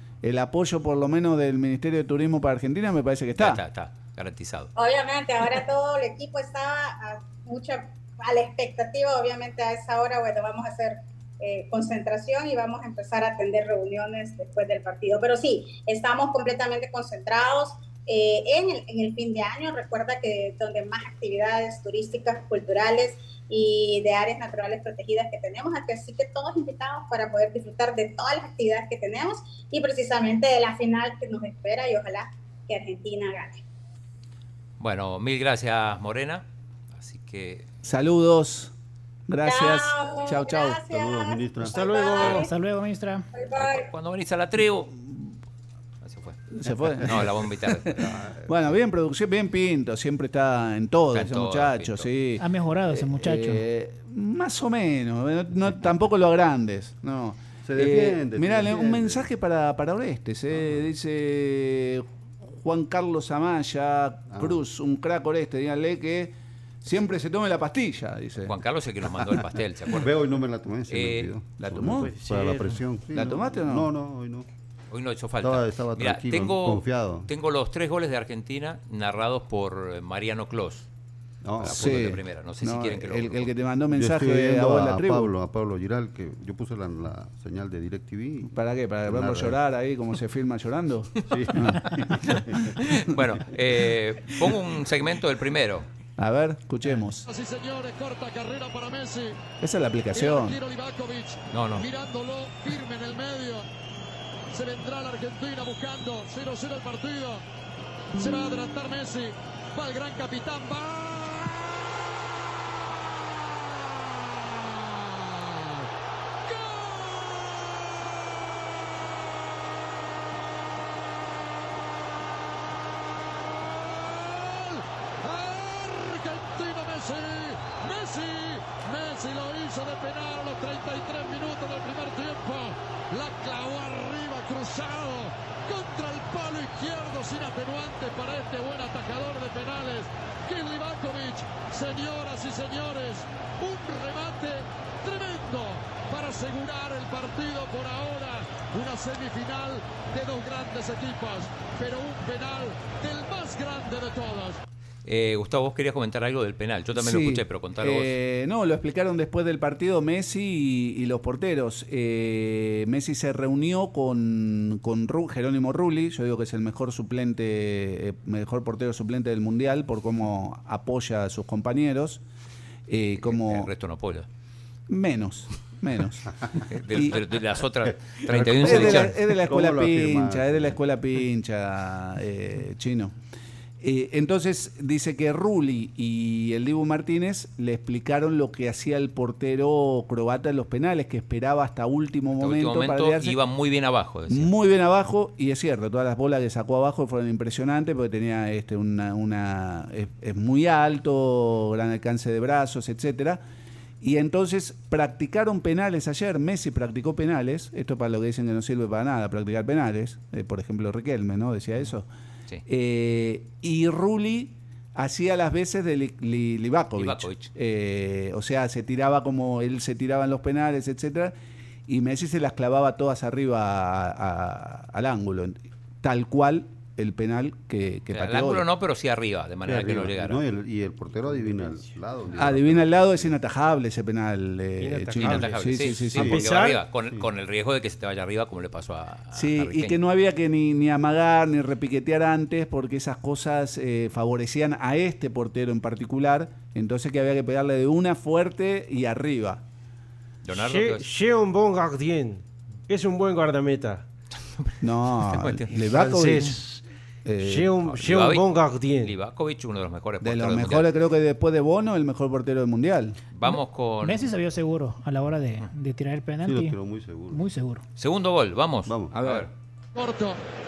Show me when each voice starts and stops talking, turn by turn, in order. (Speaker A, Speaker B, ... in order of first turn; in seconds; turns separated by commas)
Speaker A: 0.2-3.6, Speaker B: 3.4-4.7, Speaker C: 4.8-33.6, Speaker B: 34.8-36.4, Speaker B: 37.0-37.6, Speaker A: 37.8-38.7, Speaker A: 39.3-40.8, Speaker C: 39.4-42.5, Speaker D: 40.9-41.9, Speaker E: 41.7-42.5, Speaker F: 42.2-43.3, Speaker C: 43.3-43.9, Speaker B: 43.5-44.9, Speaker A: 44.9-45.3, Speaker B: 46.0-46.4, Speaker A: 46.6-47.3, Speaker B: 47.0-48.0, Speaker D: 47.9-48.8, Speaker A: 48.5-68.5, Speaker B: 51.1-52.1, Speaker F: 52.4-53.6, Speaker D: 57.6-59.3, Speaker D: 64.3-64.6, Speaker B: 68.5-70.1, Speaker D: 69.9-74.5, Speaker B: 70.9-71.3, Speaker A: 71.6-72.1, Speaker E: 72.0-72.8, Speaker A: 73.1-73.9, Speaker B: 74.9-80.9, Speaker D: 75.4-77.3, Speaker D: 81.4-82.2, Speaker B: 81.6-83.5, Speaker A: 81.6-85.3, Speaker D: 83.9-88.5, Speaker A: 88.4-91.9, Speaker D: 89.0-89.6, Speaker D: 91.3-92.7, Speaker B: 92.8-95.9, Speaker A: 96.2-97.2, Speaker G: 97.2-99.4, Speaker A: 99.6-100.6, Speaker G: 100.1-103.7, Speaker B: 101.5-101.9, Speaker G: 104.5-107.4, Speaker G: 108.1-112.0, Speaker G: 113.7-115.9, Speaker G: 116.5-117.9, Speaker G: 123.6-154.6, Speaker B: 155.0-158.1, Speaker A: 156.9-172.2, Speaker A: 172.9-173.7, Speaker B: 173.2-174.3, Speaker A: 174.9-176.2, Speaker B: 176.7-179.2, Speaker A: 176.9-177.2, Speaker D: 178.3-180.8, Speaker A: 178.3-183.1, Speaker A: 183.8-193.4, Speaker B: 192.4-194.5, Speaker A: 194.3-203.4, Speaker A: 204.0-212.1, Speaker A: 212.7-221.3, Speaker B: 217.0-217.5, Speaker A: 221.9-228.6, Speaker B: 228.1-230.4, Speaker D: 229.7-233.3, Speaker A: 232.3-236.4, Speaker E: 234.8-235.5, Speaker B: 235.2-239.9, Speaker D: 236.1-236.5, Speaker E: 236.3-236.8, Speaker A: 239.3-249.6, Speaker B: 250.4-251.0, Speaker E: 250.5-254.0, Speaker B: 254.4-255.7, Speaker A: 254.8-256.6, Speaker E: 255.7-256.8, Speaker A: 257.2-257.8, Speaker E: 257.4-259.1, Speaker B: 257.9-258.4, Speaker B: 259.0-260.9, Speaker A: 260.2-263.2, Speaker B: 263.3-264.3, Speaker F: 263.4-266.8, Speaker D: 266.4-267.4, Speaker F: 267.3-267.8, Speaker B: 268.0-269.5, Speaker D: 268.9-269.1, Speaker A: 269.1-269.5, Speaker G: 269.9-270.4